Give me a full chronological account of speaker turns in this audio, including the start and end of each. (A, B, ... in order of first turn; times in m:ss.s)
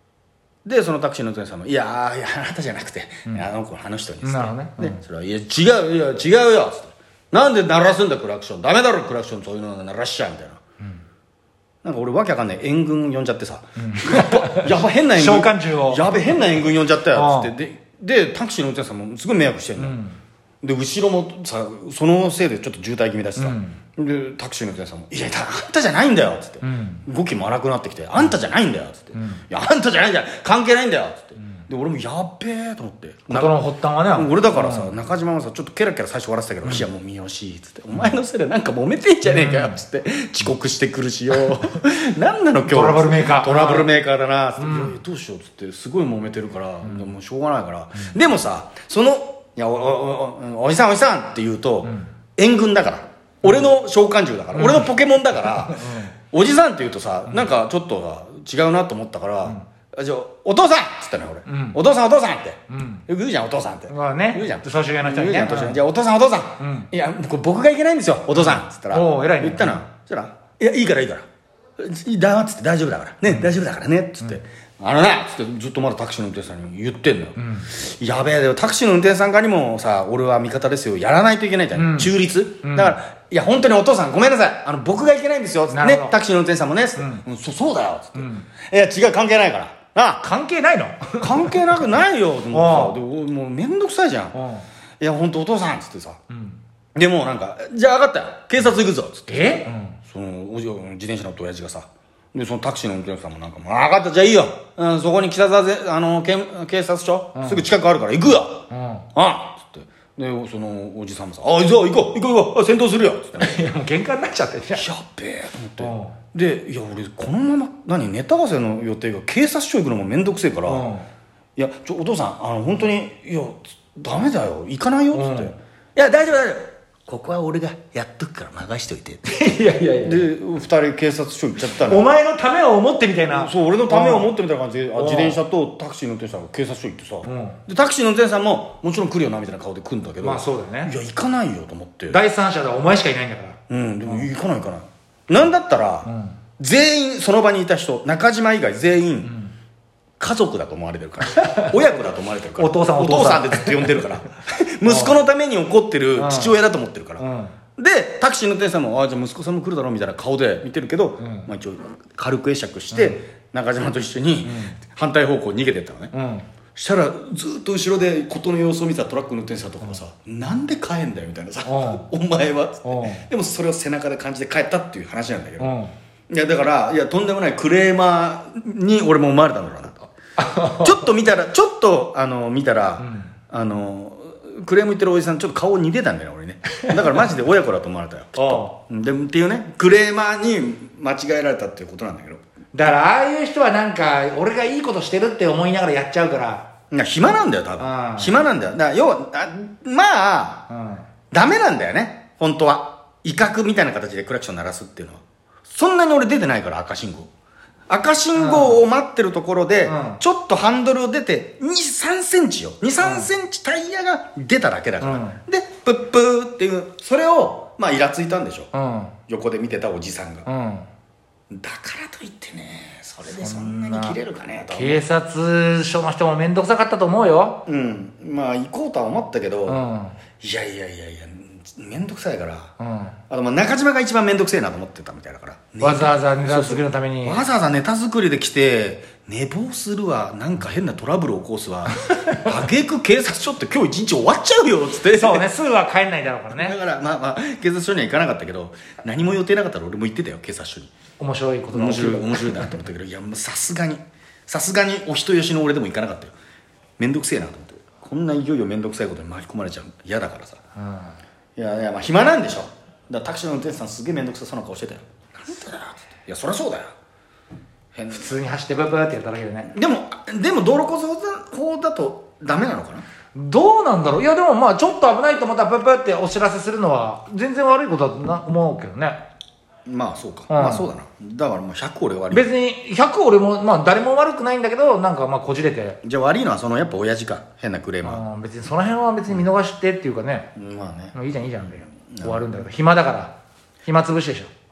0:00.6-0:10.6 A
0:04.2-0:05.0 B
0:11.8-0:20.0 A
0:13.8-0:16.4 B
0:17.1-0:17.5 B
0:19.8-0:20.2 B
0:20.6-1:11.2 A
0:23.4-0:23.8 B
0:26.6-0:27.0 B
0:29.1-0:29.4 B
0:33.3-0:34.9 B
0:39.2-0:39.8 B
0:42.7-0:43.9 B
0:44.6-0:44.9 B
0:54.5-0:54.9 B
0:55.4-0:56.1 B
1:01.5-1:01.8 B
1:02.7-1:03.0 B
1:03.9-1:05.8 B
1:06.6-1:06.9 B
1:08.3-1:09.8 B
1:11.8-1:30.2 A
1:17.4-1:17.7 B
1:21.8-1:23.0 B
1:25.7-1:26.2 B
1:27.0-1:27.2 B
1:28.2-1:28.4 B
1:30.2-1:31.8 B
1:31.2-1:34.4 A
1:32.5-1:33.0 B
1:34.3-1:34.6 B
1:35.0-1:36.2 A
1:36.3-1:36.6 B
1:36.9-1:53.6 A
1:39.3-1:40.0 B
1:47.3-1:47.6 B
1:48.7-1:49.0 B
1:53.4-1:54.8 B
1:54.7-2:00.9 A
1:55.8-1:56.2 B
2:00.7-2:01.1 B
2:01.6-2:09.2 A
2:05.1-2:05.5 B
2:09.3-2:10.3 B
2:10.0-2:12.1 A
2:11.7-2:14.3 B
2:13.3-2:22.2 A
2:15.0-2:15.4 B
2:17.2-2:17.6 B
2:20.2-2:20.9 B
2:22.1-2:23.6 B
2:23.7-2:29.3 A
2:26.0-2:26.4 B
2:29.2-2:29.5 B
2:30.2-2:37.2 A
2:31.4-2:31.8 B
2:32.6-2:34.0 B
2:34.8-2:35.2 B
2:36.2-2:36.5 B
2:37.2-2:37.5 B
2:37.8-2:46.1 A
2:41.2-2:41.5 B
2:42.9-2:43.2 B
2:44.4-2:44.8 B
2:46.1-2:46.4 B
2:46.8-2:55.7 A
2:51.6-2:52.0 B
2:52.8-2:53.2 B
2:55.6-2:55.9 B
2:56.3-3:12.4 A
3:00.4-3:01.0 B
3:03.0-3:03.3 B
3:08.4-3:08.7 B
3:12.7-3:16.7 B
3:16.9-3:20.7 A
3:17.8-3:18.4 B
3:20.7-3:21.0 B
3:21.3-3:27.3 A
3:27.9-3:38.7 A
3:28.4-3:28.8 B
3:29.8-3:30.2 B
3:33.0-3:33.3 B
3:35.0-3:35.4 B
3:38.7-3:39.1 B
3:39.3-3:40.5 A
3:40.4-3:40.9 B
3:41.5-3:45.0 A
3:43.2-3:44.2 B
3:44.7-3:47.6 B
3:47.6-3:49.8 A
3:49.7-3:50.2 B
3:50.4-3:52.7 A
3:52.8-3:53.2 B
3:53.3-4:05.5 A
3:55.8-3:57.4 B
4:02.2-4:02.5 B
4:05.1-4:06.7 B
4:06.5-4:10.9 A
4:11.2-4:12.8 B
4:11.7-4:16.3 A
4:17.0-4:20.6 A
4:20.8-4:21.1 B
4:21.6-4:26.9 A
4:27.9-4:28.4 A
4:28.1-4:29.7 B
4:29.7-4:33.0 A
4:33.3-4:39.2 B
4:39.8-4:42.5 A
4:40.5-4:40.9 B
4:42.3-4:46.0 B
4:46.0-4:48.2 A
4:48.0-4:50.5 B
4:50.5-4:51.2 A
4:51.1-4:54.5 B
4:51.9-4:52.5 A